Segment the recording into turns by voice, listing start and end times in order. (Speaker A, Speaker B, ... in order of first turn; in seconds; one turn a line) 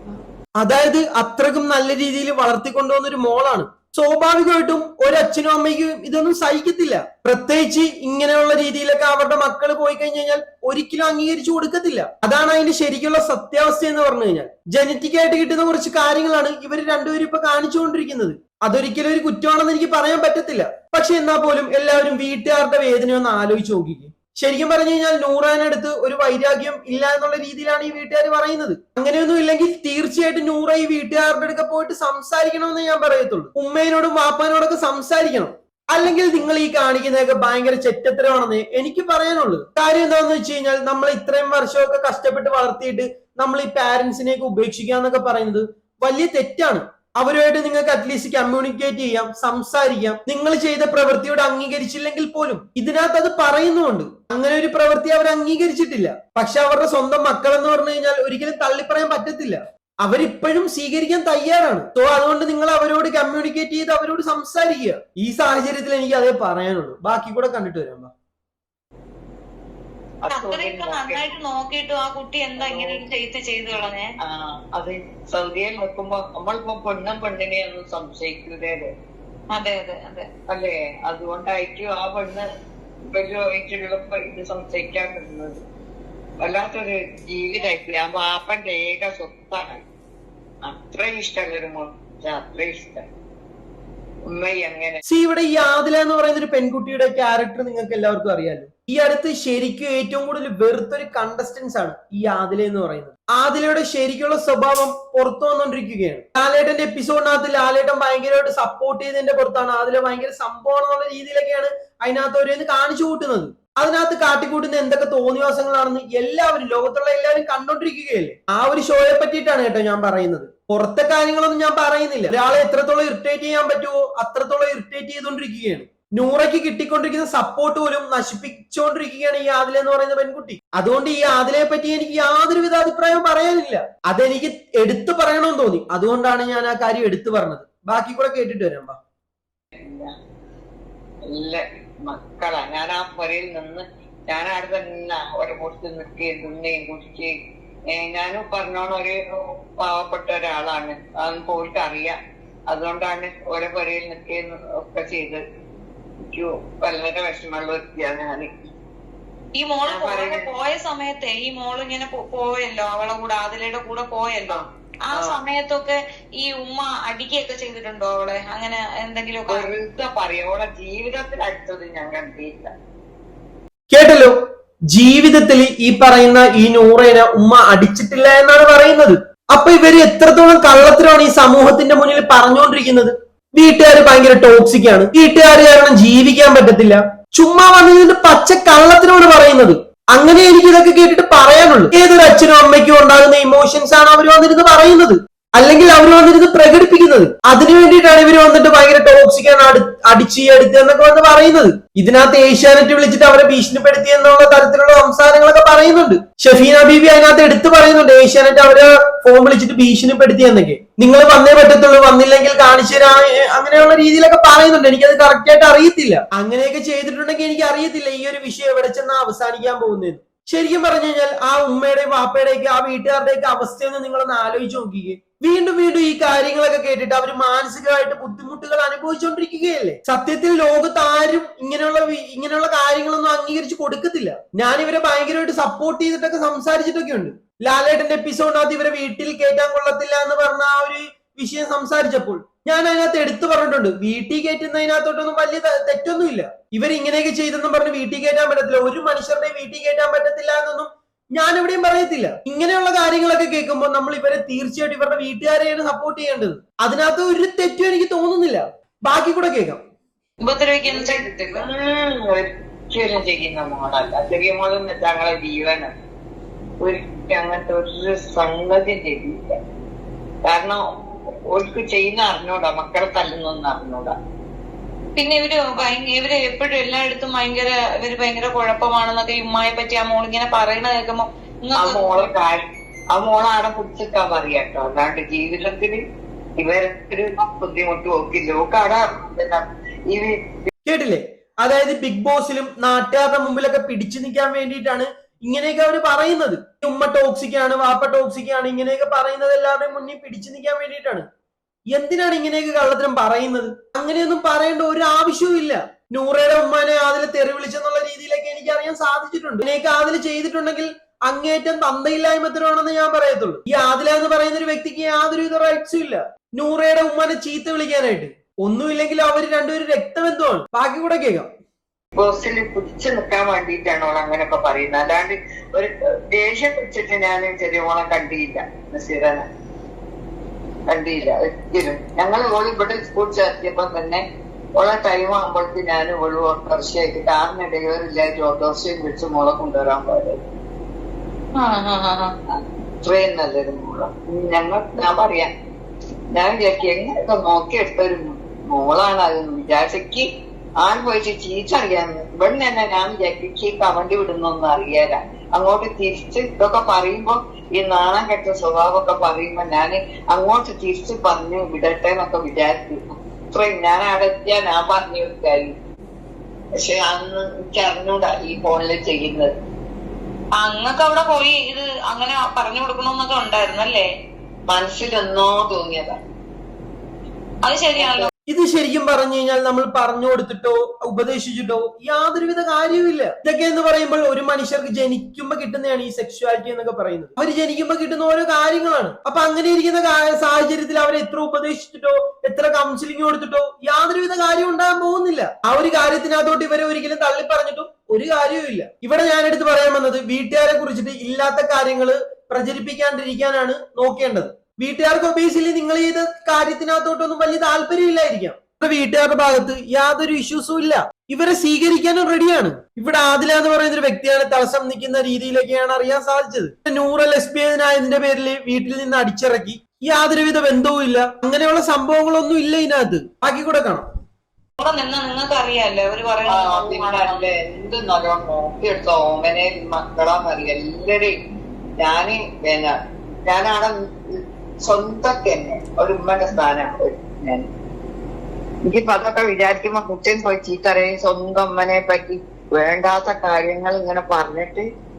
Speaker A: 0.6-68.1
Speaker B: 70.2-71.2
Speaker C: 70.3-74.1
Speaker B: 72.6-73.0
Speaker B: 74.2-78.9
Speaker C: 79.5-80.3
Speaker B: 80.5-82.5
Speaker B: 83.1-85.6
Speaker B: 86.4-89.8
Speaker B: 90.6-93.1
Speaker B: 94.3-95.0
Speaker A: 95.1-139.0
Speaker B: 139.8-140.1
Speaker B: 141.2-147.3
Speaker B: 147.9-152.2
Speaker B: 152.7-155.4
Speaker B: 156.3-158.5
Speaker C: 159.6-169.7
Speaker B: 159.9-160.5
Speaker B: 169.5-172.7
Speaker A: 173.9-174.4
Speaker A: 174.9-259.8
Speaker C: 260.4-261.7
Speaker B: 260.8-265.9
Speaker B: 266.8-269.6
Speaker B: 270.4-270.8
Speaker B: 271.5-274.1
Speaker C: 275.1-282.3
Speaker B: 281.8-286.0
Speaker B: 286.6-290.5
Speaker A: 290.9-301.2
Speaker A: 301.9-321.5
Speaker B: 322.1-329.4
Speaker B: 330.9-334.2
Speaker B: 334.8-340.4
Speaker C: 341.6-342.3
Speaker B: 342.5-345.5
Speaker B: 346.3-350.2
Speaker B: 350.8-365.8
Speaker B: 366.8-369.5
Speaker C: 370.6-374.1
Speaker B: 374.7-376.2
Speaker C: 377.6-378.3
Speaker B: 378.0-378.3
Speaker A: 378.5-424.1
Speaker C: 424.8-427.4
Speaker B: 426.5-431.3
Speaker B: 432.0-432.9
Speaker B: 433.4-437.7
Speaker B: 438.9-444.8